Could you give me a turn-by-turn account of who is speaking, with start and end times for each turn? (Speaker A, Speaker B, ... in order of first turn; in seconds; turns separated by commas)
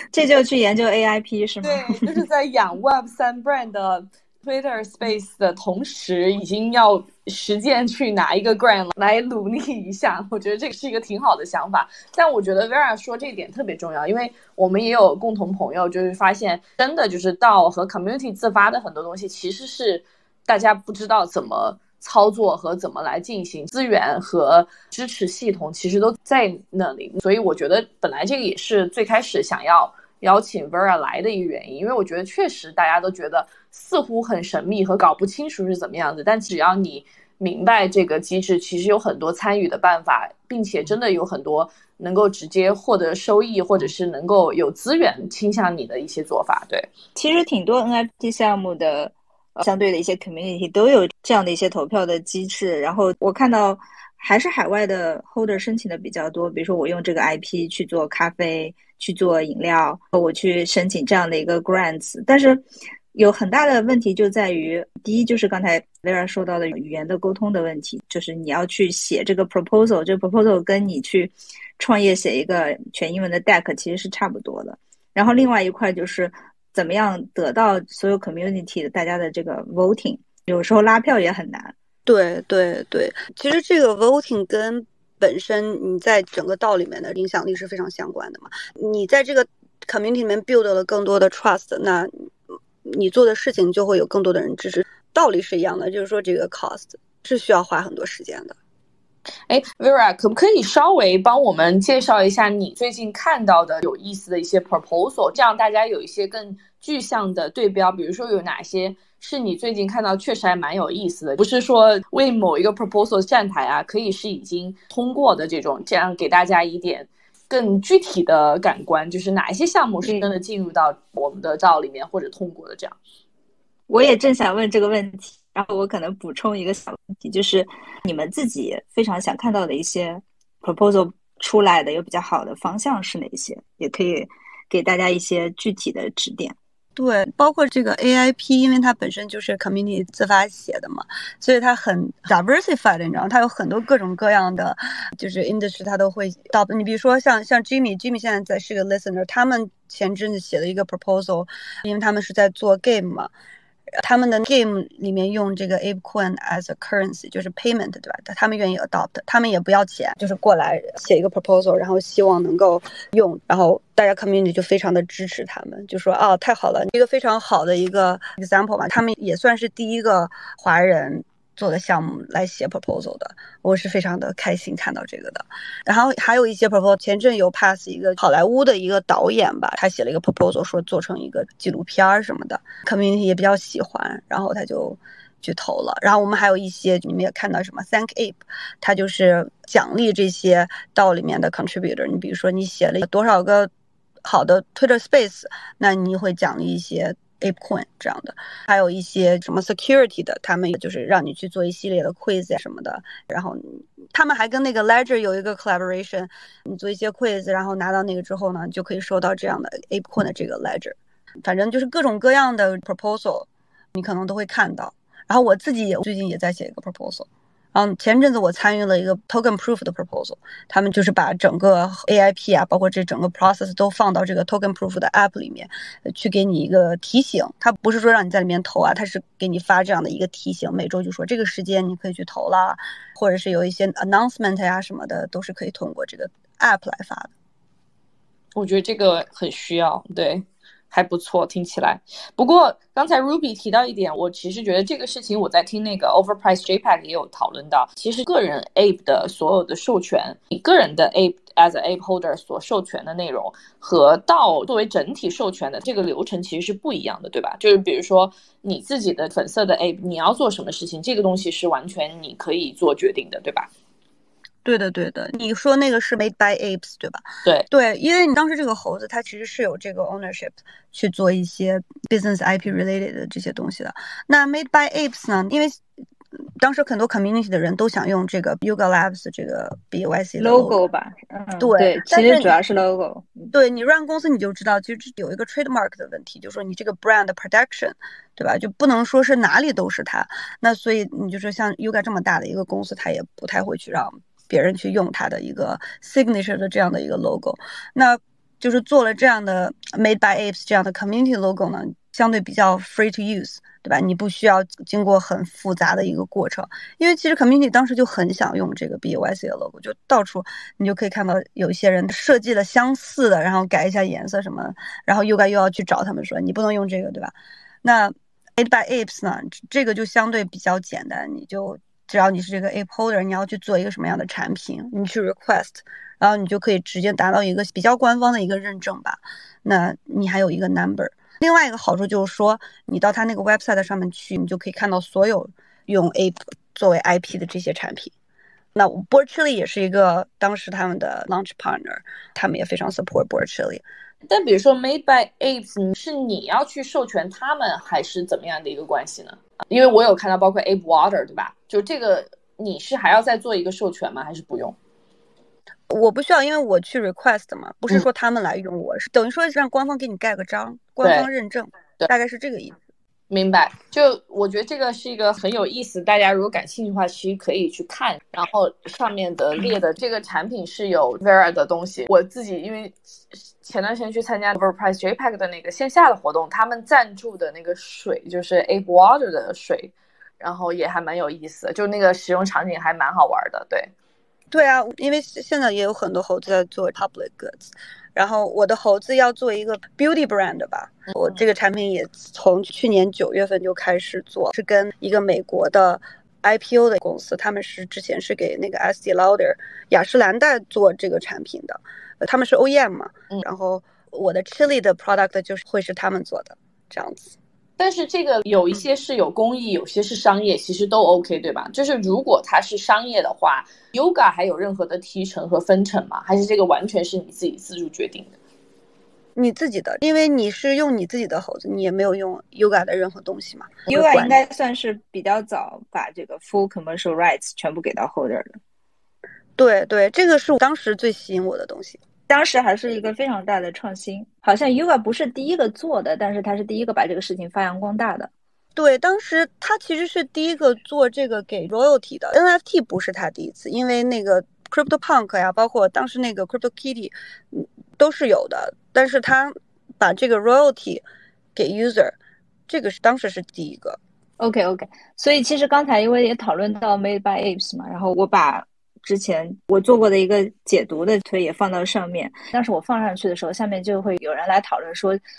Speaker A: 0.1-2.2, Speaker B: 1.6-46.9, Speaker A: 47.1-81.7, Speaker C: 82.1-92.1, Speaker C: 92.8-98.6, Speaker B: 99.5-123.0, Speaker A: 123.9-136.6, Speaker C: 137.0-153.3, Speaker C: 154.0-193.7, Speaker C: 194.2-237.3, Speaker B: 238.6-263.7, Speaker C: 264.6-275.8, Speaker C: 276.6-280.8, Speaker A: 280.4-283.5, Speaker C: 281.6-282.6, Speaker C: 283.5-338.1, Speaker C: 338.8-343.8, Speaker B: 344.3-354.8, Speaker C: 355.9-362.8, Speaker B: 363.3-383.9, Speaker C: 384.5-407.4, Speaker B: 407.8-418.3, Speaker C: 419.4-424.4, Speaker A: 423.9-428.6, Speaker C: 429.6-432.0, Speaker A: 432.3-438.3, Speaker C: 438.8-451.0, Speaker C: 451.6-452.2, Speaker C: 452.7-454.0, Speaker A: 454.4-465.2